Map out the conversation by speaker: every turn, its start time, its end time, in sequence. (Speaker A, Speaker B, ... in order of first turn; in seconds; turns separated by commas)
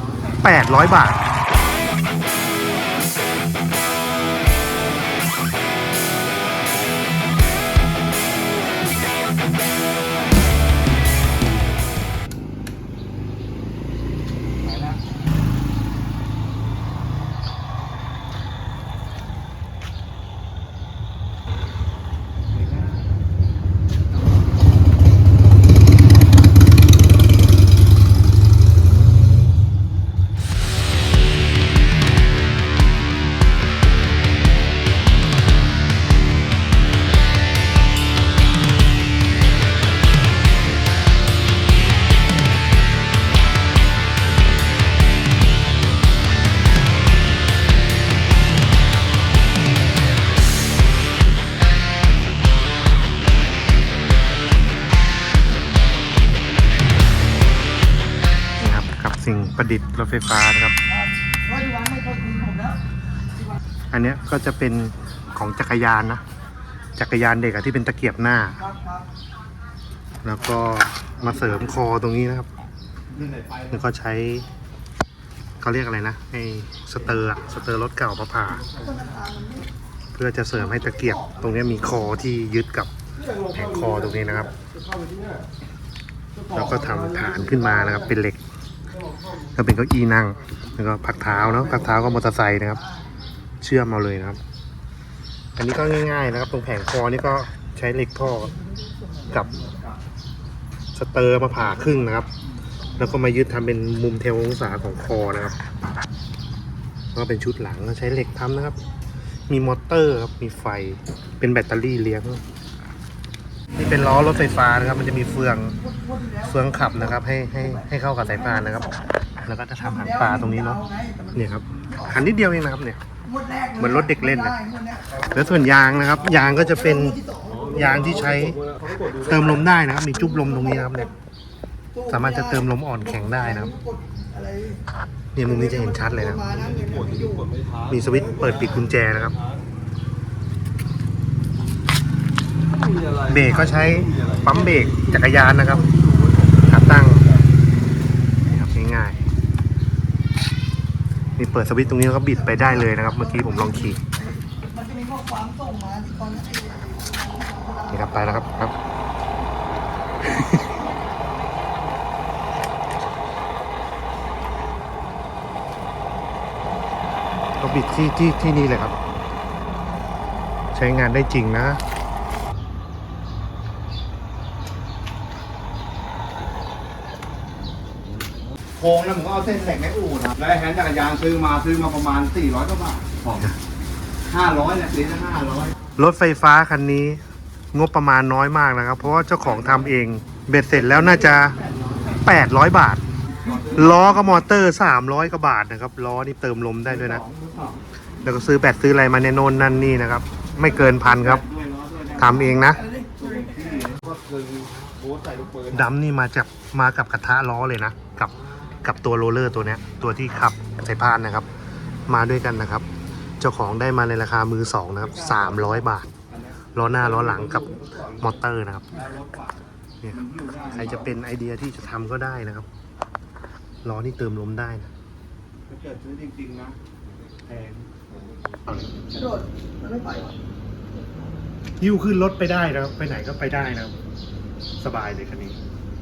Speaker A: 0.4-1.2, Speaker A: 58.6-60.8, Speaker B: 61.6-62.6, Speaker A: 63.9-66.2, Speaker A: 67.0-68.6, Speaker A: 70.2-72.5, Speaker C: 73.2-73.7, Speaker A: 73.7-74.4, Speaker A: 75.6-78.7, Speaker B: 79.2-79.6, Speaker A: 80.1-84.5, Speaker A: 86.5-88.4, Speaker A: 89.5-92.8, Speaker A: 93.6-94.4, Speaker A: 95.6-98.5, Speaker A: 99.3-99.6, Speaker A: 100.9-102.3, Speaker A: 103.0-105.5, Speaker A: 107.1-108.8, Speaker A: 109.5-112.4, Speaker A: 113.8-115.8, Speaker B: 116.0-116.3, Speaker A: 116.3-123.0, Speaker B: 120.9-121.2, Speaker B: 123.4-123.6, Speaker A: 123.7-124.7, Speaker B: 124.7-125.0, Speaker A: 125.2-131.1, Speaker B: 127.3-127.6, Speaker A: 132.0-133.8, Speaker B: 133.7-134.8, Speaker A: 135.3-136.5, Speaker B: 136.5-137.4, Speaker C: 136.9-137.5, Speaker A: 137.9-139.3, Speaker A: 143.2-145.9, Speaker A: 146.7-147.2, Speaker A: 148.5-149.2, Speaker A: 151.4-154.1, Speaker B: 154.8-157.4, Speaker A: 157.9-158.7, Speaker A: 160.2-160.8, Speaker A: 167.6-168.9, Speaker A: 170.7-171.8, Speaker C: 178.8-179.8, Speaker B: 178.8-180.4, Speaker C: 180.3-183.4, Speaker A: 183.3-183.6, Speaker C: 184.3-185.7, Speaker A: 185.9-187.2, Speaker A: 187.7-191.6, Speaker A: 192.2-193.0, Speaker A: 193.6-197.3, Speaker C: 197.4-197.7, Speaker A: 198.2-201.5, Speaker C: 201.4-202.2, Speaker A: 202.2-202.9, Speaker C: 203.2-205.6, Speaker A: 205.6-211.5, Speaker A: 212.1-212.9, Speaker A: 213.4-216.1, Speaker A: 216.7-219.1, Speaker C: 219.1-219.5, Speaker A: 220.0-222.7, Speaker C: 220.3-220.6, Speaker A: 223.8-224.9, Speaker C: 225.7-226.8, Speaker C: 227.5-227.8, Speaker B: 229.2-230.2, Speaker A: 231.8-233.9, Speaker A: 234.8-235.6